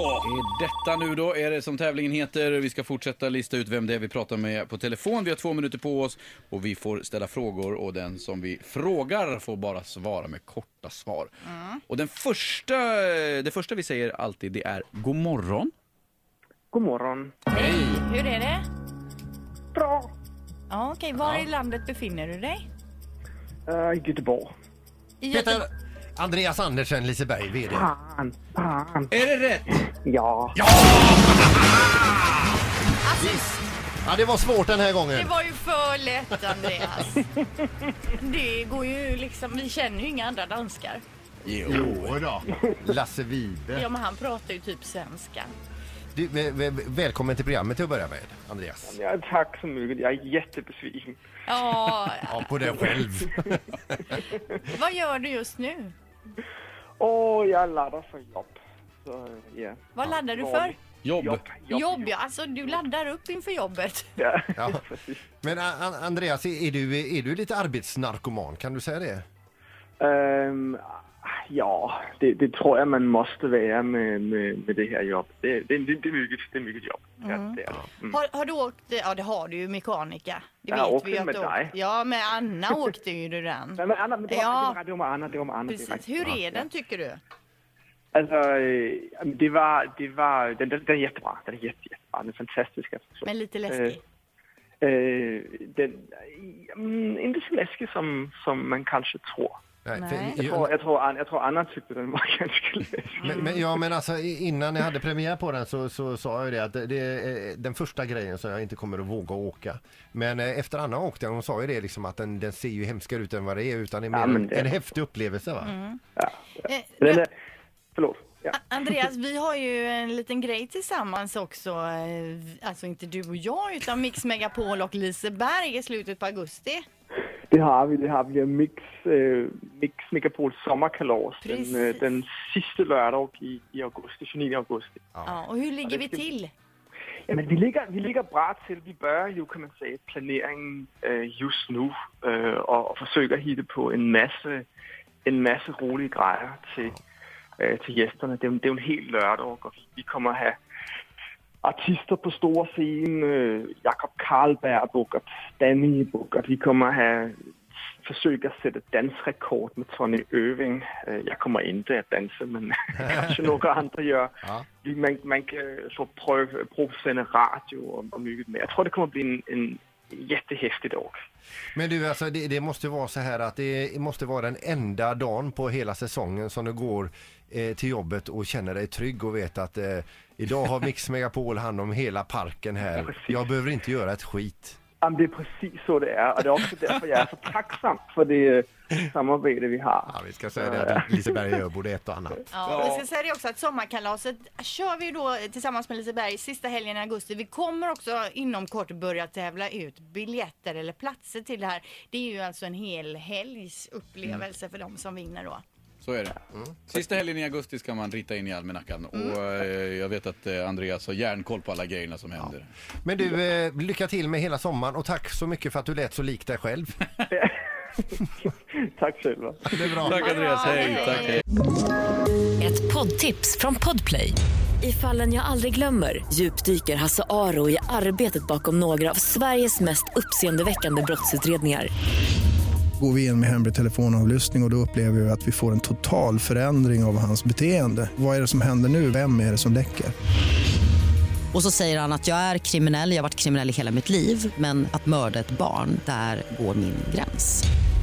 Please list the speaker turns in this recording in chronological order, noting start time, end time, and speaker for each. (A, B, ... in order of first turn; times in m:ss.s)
0:00.2-0:11.3 A
0:11.4-0:11.8 B
0:11.9-0:15.7 A
0:16.7-0:17.4 C
0:17.5-0:18.6 B
0:17.5-0:18.0 D
0:19.7-0:20.1 C
0:20.7-0:22.6 B
0:21.2-0:21.4 D
0:23.7-0:24.5 C
0:25.2-0:25.6 B
0:25.3-0:27.9 D
0:27.7-0:29.1 C
0:29.1-0:29.8 A
0:29.8-0:30.6 C
0:30.6-0:32.6 D
0:33.0-0:33.6 B
0:33.2-0:35.3 D
0:35.1-0:37.3 B
0:38.1-0:41.0 B
0:41.4-0:42.2 A
0:41.7-0:43.9 D
0:43.7-0:45.5 B
0:46.1-0:49.0 D
0:48.8-0:51.2 C
0:51.4-0:52.5 B
0:52.2-0:54.0 D
0:54.5-0:55.9 B
0:57.0-1:02.2 C
1:00.0-1:00.8 B
1:01.0-1:01.4 A
1:01.7-1:04.1 B
1:04.2-1:05.3 C
1:04.6-1:04.8 D
1:05.4-1:09.2 D
1:10.0-1:18.2 C
1:17.2-1:17.6 B
1:18.1-1:24.8 B
1:20.7-1:21.7 C
1:23.8-1:26.7 C
1:25.7-1:27.2 B
1:28.1-1:34.0 C
1:33.2-1:34.0 B
1:34.8-1:39.6 C
1:39.8-1:40.7 D
1:39.9-1:40.4 B
1:40.3-1:43.5 C
1:43.2-1:55.8 D
1:54.1-1:54.8 C
1:55.6-1:56.0 B
1:56.6-1:57.2 B
1:57.0-1:57.3 C
1:57.9-1:58.6 C
1:58.5-2:06.8 B
2:07.5-2:15.0 C
2:11.4-2:12.0 B
2:15.1-2:15.4 D
2:15.2-2:16.5 B
2:15.8-2:16.3 C
2:17.3-2:24.7 C
2:25.2-2:27.0 C
2:27.6-2:30.6 C
2:31.6-2:37.5 C
2:38.0-2:51.2 C
2:51.7-3:04.8 D
3:03.0-3:03.3 C
3:05.0-3:11.4 C
3:10.1-3:12.5 D
3:12.5-3:25.6 B
3:12.7-3:13.0 C
3:26.0-3:26.4 A
3:26.9-3:32.7 A
3:33.0-3:37.0 D
3:37.3-3:40.8 C
3:39.7-3:40.3 D
3:40.0-3:41.4 A
3:40.2-3:41.4 B
3:42.6-3:51.9 E
3:53.0-4:00.1 F
4:01.5-4:07.7 G